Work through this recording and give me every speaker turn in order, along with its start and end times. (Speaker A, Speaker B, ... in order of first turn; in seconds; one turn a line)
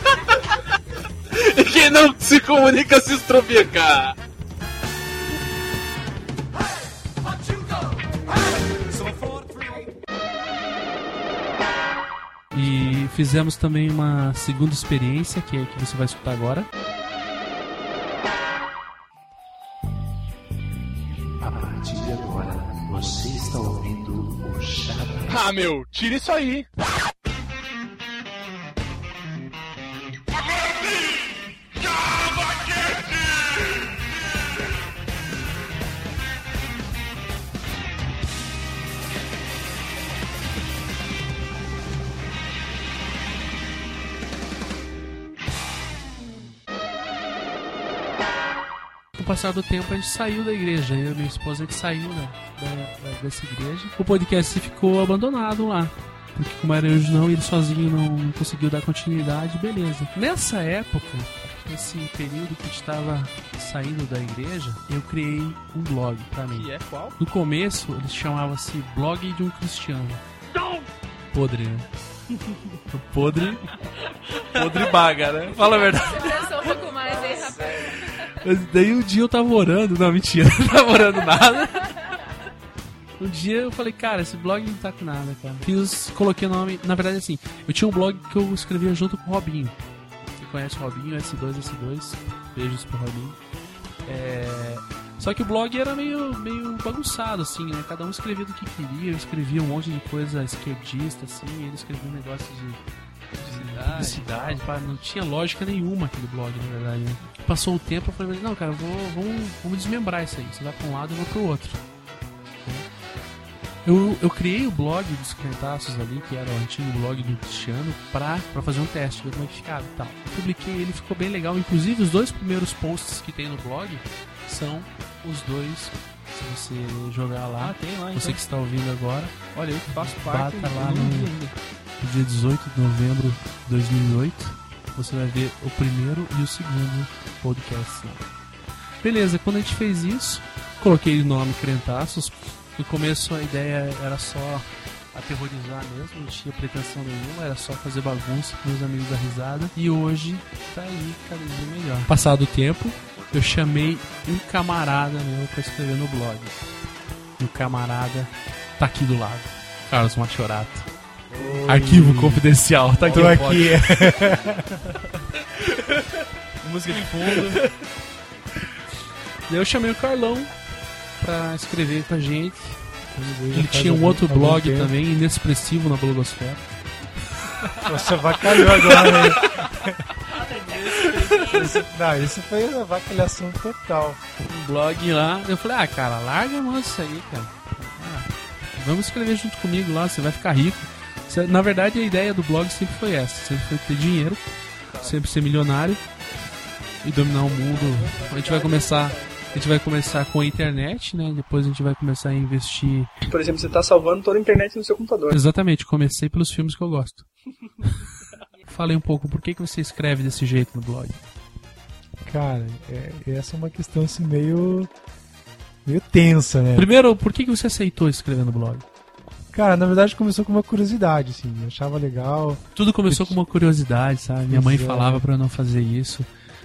Speaker A: 1.3-4.2
Speaker B: 12.5-16.7
Speaker B: 21.4-25.4
Speaker A: 25.3-26.6
Speaker B: 49.2-70.2
Speaker C: 66.5-67.2
Speaker B: 71.3-71.9
Speaker C: 72.3-72.7
Speaker B: 72.9-73.7
Speaker B: 74.5-76.3
Speaker D: 75.7-77.9
Speaker B: 78.3-82.0
Speaker B: 83.2-89.7
Speaker B: 90.4-93.3
Speaker B: 94.0-102.8
Speaker C: 103.4-104.7
Speaker B: 103.5-111.8
Speaker B: 113.8-129.3
Speaker C: 127.6-128.4
Speaker C: 129.5-131.5
Speaker B: 129.9-131.3
Speaker B: 132.0-138.2
Speaker B: 139.0-156.6
Speaker B: 157.4-160.8
Speaker E: 161.3-162.4
Speaker B: 161.7-163.7
Speaker C: 162.9-163.6
Speaker E: 163.1-164.8
Speaker C: 166.6-167.6
Speaker B: 169.5-170.5
Speaker B: 171.2-172.8
Speaker E: 173.1-174.9
Speaker B: 173.5-176.6
Speaker B: 177.5-177.7
Speaker E: 177.8-179.6
Speaker B: 178.6-179.2
Speaker C: 180.3-181.8
Speaker E: 181.6-184.2
Speaker B: 184.4-194.4
Speaker B: 195.0-196.0
Speaker B: 197.0-203.1
Speaker C: 197.4-199.7
Speaker C: 203.3-205.4
Speaker B: 205.3-207.3
Speaker B: 208.7-211.2
Speaker E: 212.2-214.9
Speaker E: 215.8-216.9
Speaker B: 216.8-218.8
Speaker E: 219.5-223.4
Speaker B: 222.8-226.3
Speaker E: 224.5-225.2